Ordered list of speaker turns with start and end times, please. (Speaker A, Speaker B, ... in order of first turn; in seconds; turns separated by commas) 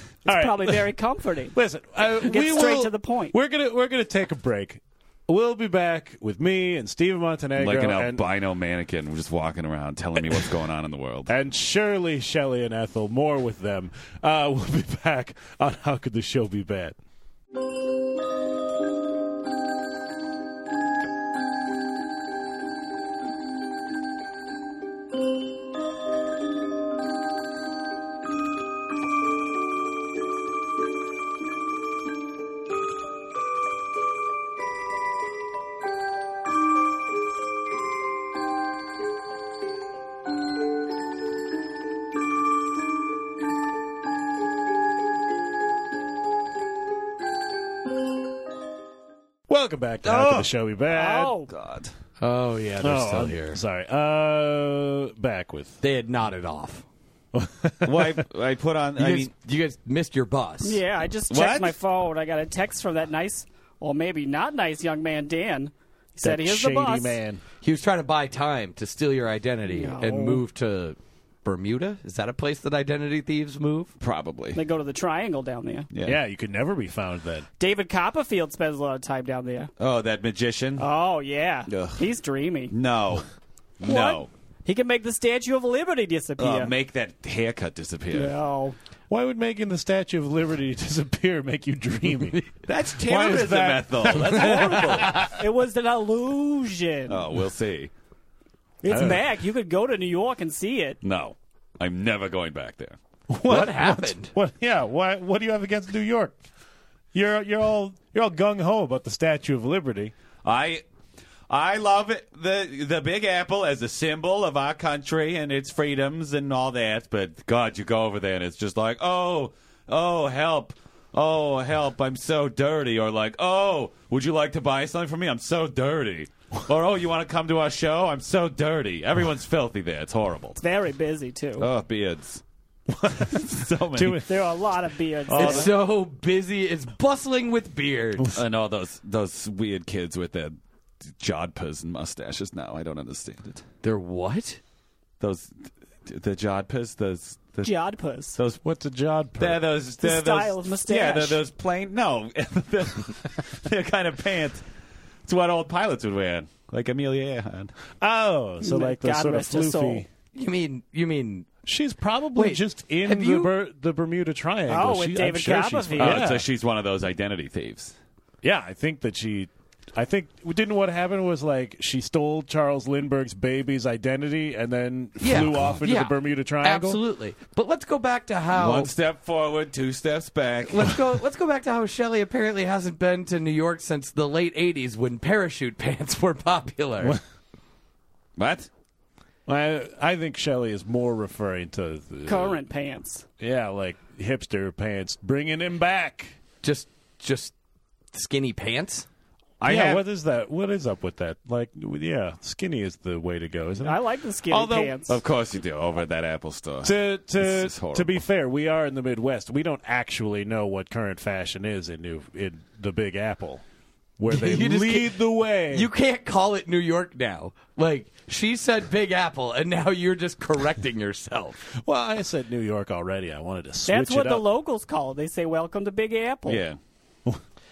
Speaker A: 0.2-1.6, Speaker B: 0.2-0.9, Speaker B: 1.5-8.2, Speaker A: 2.2-3.4, Speaker C: 7.6-11.3, Speaker B: 11.3-17.0, Speaker B: 49.5-51.4, Speaker C: 50.0-50.5, Speaker A: 50.9-51.5, Speaker C: 51.5-51.9, Speaker D: 52.2-53.6, Speaker B: 52.8-55.8, Speaker D: 55.8-56.8, Speaker B: 57.3-58.2, Speaker C: 57.8-59.3, Speaker D: 59.0-60.8, Speaker A: 60.6-67.2, Speaker C: 61.3-61.7, Speaker B: 66.2-67.4, Speaker D: 67.6-73.9, Speaker A: 69.7-70.4, Speaker C: 74.0-74.6, Speaker A: 74.5-75.9, Speaker C: 75.9-76.2, Speaker B: 76.0-77.5, Speaker A: 77.6-79.7, Speaker C: 79.8-80.9, Speaker A: 80.8-82.7, Speaker C: 81.7-82.0, Speaker C: 82.7-83.3, Speaker C: 83.8-84.3, Speaker A: 83.8-86.7, Speaker C: 86.4-88.3, Speaker A: 88.1-88.8, Speaker B: 89.1-92.4, Speaker C: 92.7-95.2, Speaker B: 93.0-95.3, Speaker D: 94.4-95.3, Speaker A: 94.5-97.2, Speaker C: 97.1-97.9, Speaker A: 98.8-101.0, Speaker B: 98.9-99.2, Speaker C: 101.0-103.0, Speaker B: 103.3-106.4, Speaker D: 103.4-104.3, Speaker B: 107.1-110.1, Speaker C: 110.4-110.8, Speaker C: 111.5-130.6, Speaker A: 130.6-131.7, Speaker C: 131.6-132.4, Speaker B: 132.9-134.6, Speaker C: 133.1-134.2, Speaker A: 134.2-135.7, Speaker C: 135.3-135.7, Speaker B: 135.3-135.7, Speaker D: 135.3-138.4, Speaker C: 138.3-140.6, Speaker C: 141.2-143.6, Speaker D: 143.8-144.6, Speaker C: 145.2-145.5, Speaker C: 146.1-147.7, Speaker A: 147.6-148.4, Speaker B: 148.6-149.6, Speaker C: 149.4-154.6, Speaker A: 150.0-151.4, Speaker C: 155.3-157.7, Speaker B: 158.0-160.1, Speaker A: 158.6-160.0, Speaker D: 160.3-161.5, Speaker B: 161.6-166.4, Speaker D: 162.3-163.5, Speaker A: 164.7-166.3, Speaker C: 166.0-167.9, Speaker B: 168.4-177.0, Speaker D: 175.2-178.9, Speaker C: 178.5-180.9, Speaker D: 180.7-187.2, Speaker C: 188.4-188.7, Speaker B: 189.4-192.6, Speaker A: 192.2-193.2, Speaker B: 193.4-196.4, Speaker D: 196.6-197.5, Speaker D: 198.1-199.1, Speaker C: 199.6-200.0, Speaker B: 199.7-204.9, Speaker A: 203.8-205.2, Speaker C: 205.1-208.2, Speaker B: 206.8-213.6, Speaker B: 214.2-215.9, Speaker D: 214.3-215.2, Speaker D: 215.7-221.7, Speaker B: 221.7-224.4, Speaker A: 223.8-226.6, Speaker C: 226.4-226.8